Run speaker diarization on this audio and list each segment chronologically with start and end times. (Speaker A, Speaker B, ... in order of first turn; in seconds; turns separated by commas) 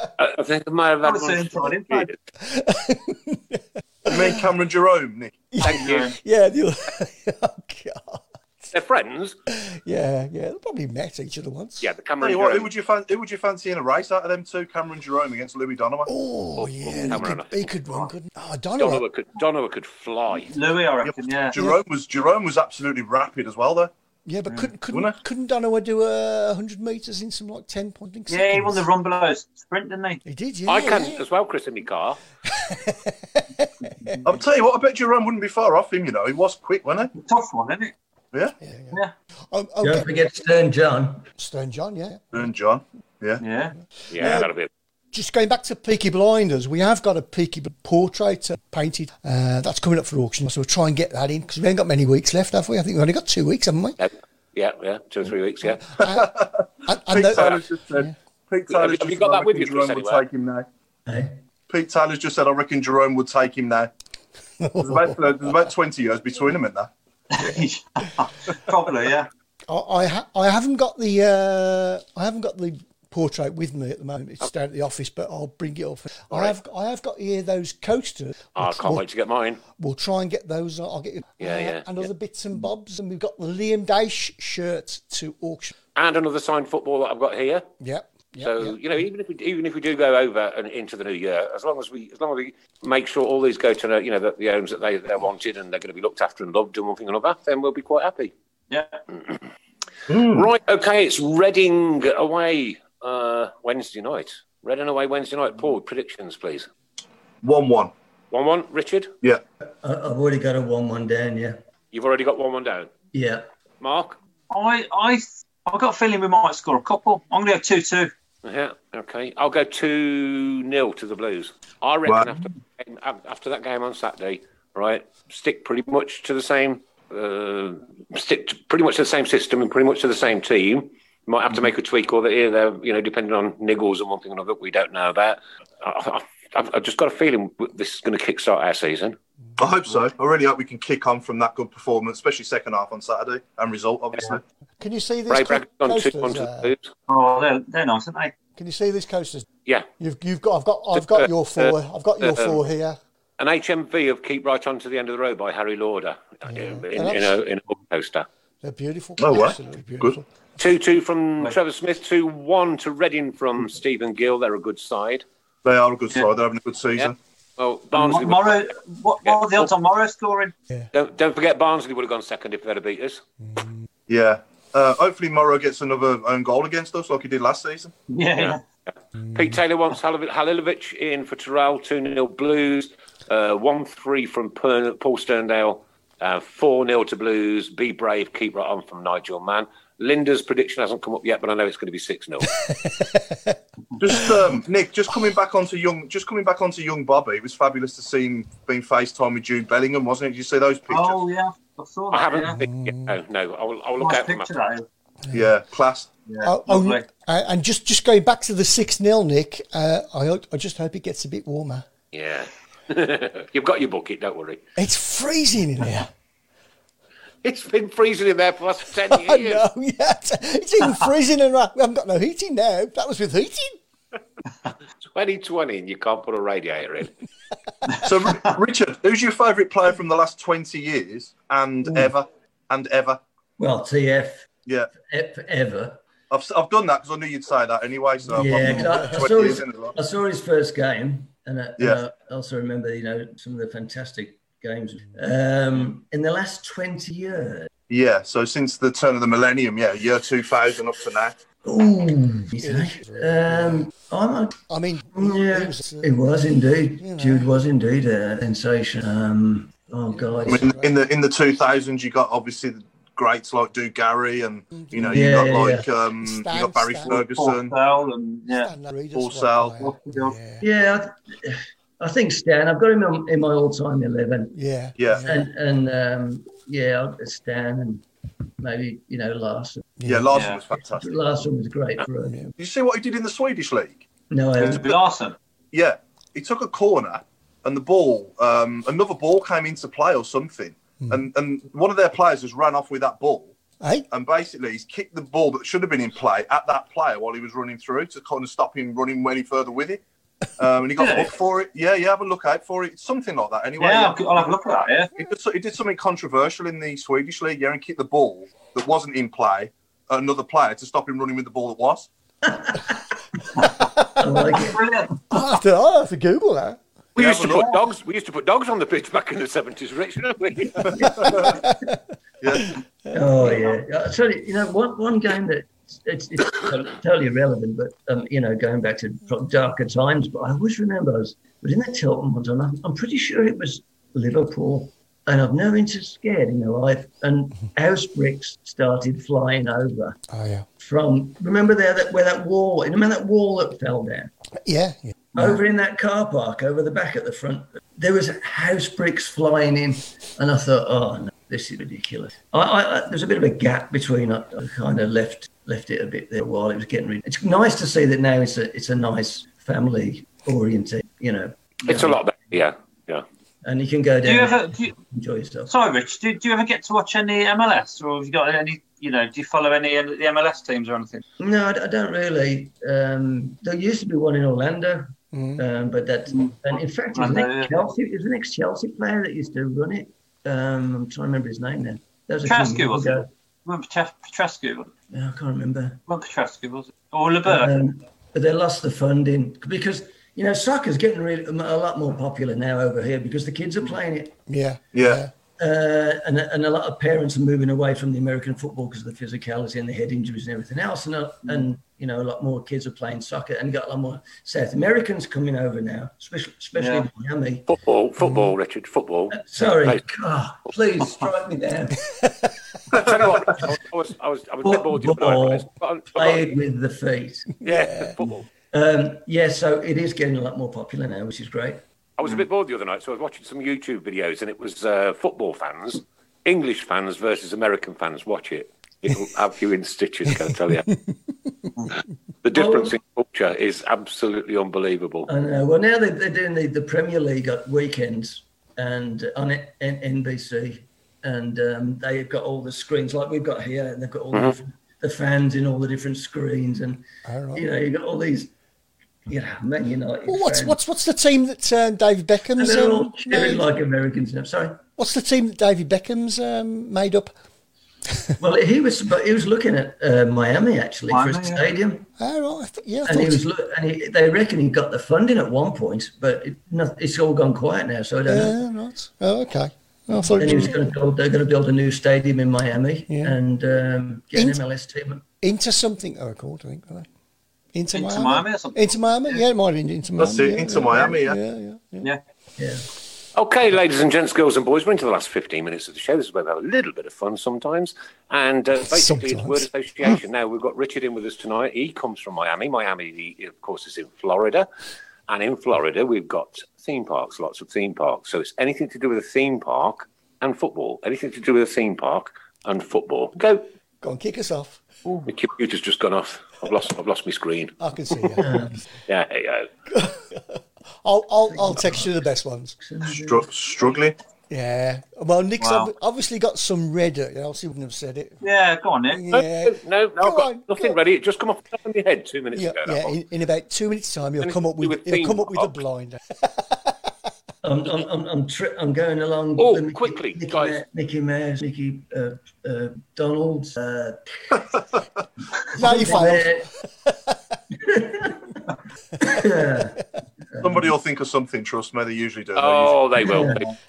Speaker A: 0.2-2.1, Speaker B: 1.0-2.1, Speaker C: 2.4-4.5, Speaker D: 4.1-5.4, Speaker C: 5.5-8.2, Speaker B: 5.6-6.1, Speaker A: 5.6-6.1, Speaker A: 8.7-9.3, Speaker C: 9.5-11.8, Speaker A: 11.8-12.7, Speaker D: 12.2-16.1, Speaker C: 16.1-19.0, Speaker A: 16.6-17.7, Speaker A: 18.8-20.6, Speaker B: 20.5-21.5, Speaker D: 21.0-23.9, Speaker C: 24.2-28.9, Speaker B: 28.3-30.2, Speaker C: 30.2-31.2, Speaker A: 30.7-32.2, Speaker C: 32.5-34.2, Speaker D: 34.2-37.1, Speaker B: 37.1-37.9, Speaker C: 38.6-40.1, Speaker E: 39.8-41.2, Speaker C: 41.4-42.2, Speaker D: 42.3-43.4, Speaker B: 43.4-43.7, Speaker C: 44.0-44.5, Speaker A: 44.1-44.7, Speaker C: 45.1-54.0, Speaker A: 54.0-55.8, Speaker C: 55.9-56.3, Speaker D: 56.0-60.6, Speaker C: 56.9-58.1, Speaker A: 57.4-57.6, Speaker A: 58.7-60.2, Speaker E: 61.1-61.4, Speaker D: 61.7-63.9, Speaker C: 64.6-65.2, Speaker D: 64.8-66.9, Speaker B: 67.3-69.3, Speaker C: 69.7-79.0, Speaker A: 76.3-76.5, Speaker A: 78.5-79.6, Speaker C: 79.8-85.7, Speaker A: 81.4-82.1, Speaker A: 86.0-87.7, Speaker C: 87.8-88.8, Speaker A: 88.4-98.3, Speaker B: 98.7-99.0, Speaker D: 100.1-100.5, Speaker A: 100.3-106.7, Speaker D: 107.4-107.9, Speaker A: 108.3-109.1, Speaker E: 109.8-111.6, Speaker A: 111.9-112.9, Speaker E: 113.1-113.5, Speaker A: 113.8-114.2, Speaker B: 114.5-118.1, Speaker A: 118.4-139.2, Speaker D: 122.0-122.5, Speaker D: 139.6-144.4, Speaker C: 144.8-146.7, Speaker A: 145.3-146.9, Speaker B: 147.1-148.3, Speaker C: 148.5-149.4, Speaker C: 150.0-153.0, Speaker A: 150.9-152.6, Speaker A: 153.4-158.3, Speaker C: 156.5-157.3, Speaker C: 158.6-160.2, Speaker D: 159.2-160.2, Speaker A: 160.6-165.2, Speaker D: 165.6-167.2, Speaker A: 167.0-168.6, Speaker B: 167.9-170.5, Speaker A: 169.2-169.7, Speaker A: 170.9-173.2, Speaker C: 173.4-173.8, Speaker D: 174.1-177.9, Speaker B: 178.1-178.6, Speaker C: 179.2-179.6, Speaker A: 179.3-192.5, Speaker C: 192.5-193.6, Speaker D: 194.0-201.2, Speaker B: 200.9-202.6, Speaker A: 202.1-204.5, Speaker C: 202.6-203.2, Speaker B: 204.0-204.8, Speaker D: 205.3-206.1, Speaker B: 206.3-207.1, Speaker C: 206.4-211.8, Speaker A: 212.1-214.6, Speaker C: 214.8-216.1, Speaker A: 217.4-219.6, Speaker C: 219.0-223.8, Speaker A: 225.0-227.1, Speaker D: 228.0-233.2, Speaker E: 233.6-236.0, Speaker D: 236.3-239.9, Speaker C: 238.3-239.2, Speaker E: 238.3-247.7, Speaker D: 247.9-251.4, Speaker E: 251.6-254.6, Speaker C: 252.6-253.9, Speaker C: 254.7-256.1, Speaker E: 255.1-260.8, Speaker C: 257.0-257.5, Speaker C: 260.1-260.9, Speaker D: 260.4-267.7, Speaker C: 264.7-267.2, Speaker E: 265.1-265.9, Speaker B: 267.1-268.7, Speaker C: 268.5-270.6, Speaker D: 269.1-269.8, Speaker B: 269.8-270.3, Speaker E: 270.6-274.5, Speaker C: 274.5-275.4, Speaker D: 275.0-275.4, Speaker E: 275.2-278.0, Speaker E: 278.6-279.9, Speaker C: 280.0-280.5, Speaker D: 280.0-281.2, Speaker B: 280.3-280.6, Speaker E: 280.9-282.5, Speaker D: 282.6-284.1, Speaker E: 284.3-284.9, Speaker B: 284.6-285.4, Speaker D: 285.7-293.6, Speaker C: 293.8-294.1, Speaker D: 294.1-300.0, Speaker D: 300.6-304.4, Speaker B: 301.0-301.3, Speaker B: 303.8-305.1, Speaker D: 305.1-312.1, Speaker E: 312.4-313.0, Speaker E: 314.2-314.8, Speaker B: 314.4-315.2, Speaker C: 315.3-316.8, Speaker A: 317.1-321.3, Speaker D: 317.1-317.8, Speaker D: 320.9-321.6, Speaker E: 321.0-321.5, Speaker C: 321.4-321.9, Speaker D: 322.4-322.7, Speaker E: 323.1-340.2, Speaker C: 340.3-340.7, Speaker E: 340.8-344.3, Speaker C: 344.6-345.1, Speaker E: 345.3-362.0, Speaker A: 361.9-363.2, Speaker E: 363.6-365.7, Speaker B: 364.2-364.9, Speaker B: 365.7-371.2, Speaker E: 371.4-383.3, Speaker C: 375.3-375.6, Speaker B: 377.1-377.8, Speaker B: 382.4-384.9, Speaker E: 385.1-386.0, Speaker B: 386.1-387.8, Speaker E: 387.4-394.4, Speaker C: 394.5-395.3, Speaker D: 394.9-395.2, Speaker E: 395.6-407.7, Speaker B: 406.8-407.1, Speaker A: 407.7-410.0, Speaker E: 409.3-412.0, Speaker C: 412.1-412.5, Speaker A: 412.9-416.5, Speaker E: 414.6-417.5, Speaker C: 417.6-418.3, Speaker A: 417.6-418.4, Speaker E: 418.7-421.8, Speaker A: 422.2-430.9, Speaker A: 432.4-435.3, Speaker E: 432.5-433.0, Speaker E: 435.3-448.5, Speaker C: 447.2-447.6, Speaker E: 449.3-450.8, Speaker C: 450.3-453.6, Speaker E: 452.5-454.8, Speaker C: 454.9-457.3, Speaker E: 458.4-462.1, Speaker B: 461.1-461.6, Speaker C: 462.2-463.4, Speaker E: 463.1-468.5, Speaker C: 468.3-470.8, Speaker E: 470.4-475.2, Speaker C: 473.1-473.4, Speaker C: 474.3-474.6, Speaker C: 475.4-477.1, Speaker C: 477.7-482.1, Speaker B: 477.9-479.4, Speaker D: 480.2-481.4, Speaker E: 482.6-482.8, Speaker A: 483.3-494.7, Speaker C: 488.9-489.6, Speaker A: 495.3-503.7, Speaker C: 504.0-504.8, Speaker A: 505.2-508.3, Speaker C: 507.8-508.7, Speaker E: 508.4-508.8, Speaker A: 509.1-509.7, Speaker C: 509.9-512.8, Speaker E: 511.5-512.1, Speaker E: 512.8-513.5, Speaker D: 513.1-514.1, Speaker C: 514.5-518.4, Speaker B: 515.6-515.9, Speaker B: 518.4-519.2, Speaker C: 519.1-520.9, Speaker A: 519.3-523.1, Speaker C: 522.5-526.9, Speaker A: 524.4-525.7, Speaker E: 527.6-534.6, Speaker A: 529.6-530.8, Speaker E: 535.7-536.7, Speaker C: 535.7-537.5, Speaker E: 537.7-538.5, Speaker E: 539.2-540.0, Speaker E: 540.5-540.9, Speaker D: 540.6-543.0, Speaker A: 542.5-543.6, Speaker E: 543.2-543.6